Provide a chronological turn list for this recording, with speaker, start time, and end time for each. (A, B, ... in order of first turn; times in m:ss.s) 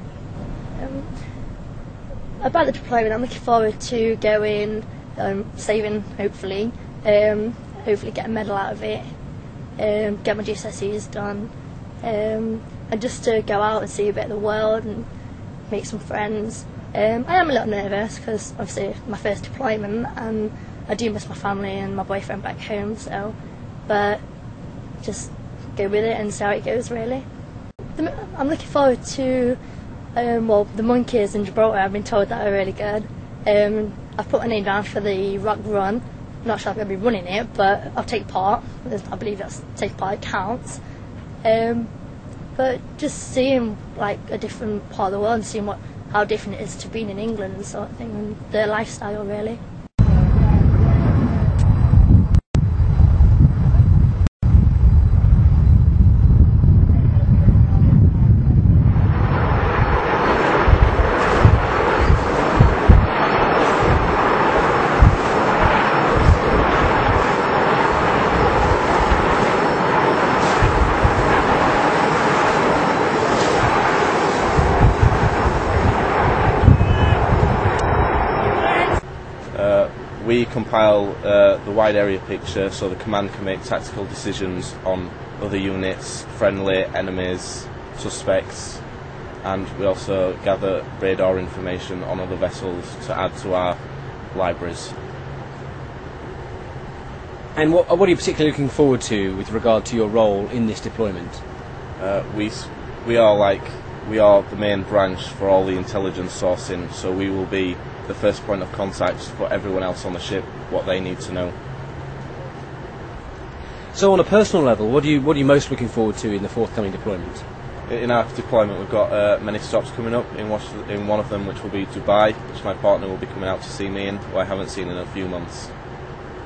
0:00.7-0:01.1 A
0:02.4-0:09.1 A
0:09.8-0:11.5 A
0:12.0-0:15.1 A
0:15.7-0:23.4 A
0:23.9-0:24.2 A
0:25.0-0:27.2 A
0:27.9-0:29.6 A
0:30.1-0:40.8 A
0:41.4-0:41.9 A
0:42.6-0:49.6 A
1:19.5-1:28.9 B
1:29.4-1:33.8 B
1:34.3-1:34.9 B
1:37.5-1:41.4 C
1:42.0-1:51.6 B
1:53.9-1:57.4 C
1:57.9-2:05.7 B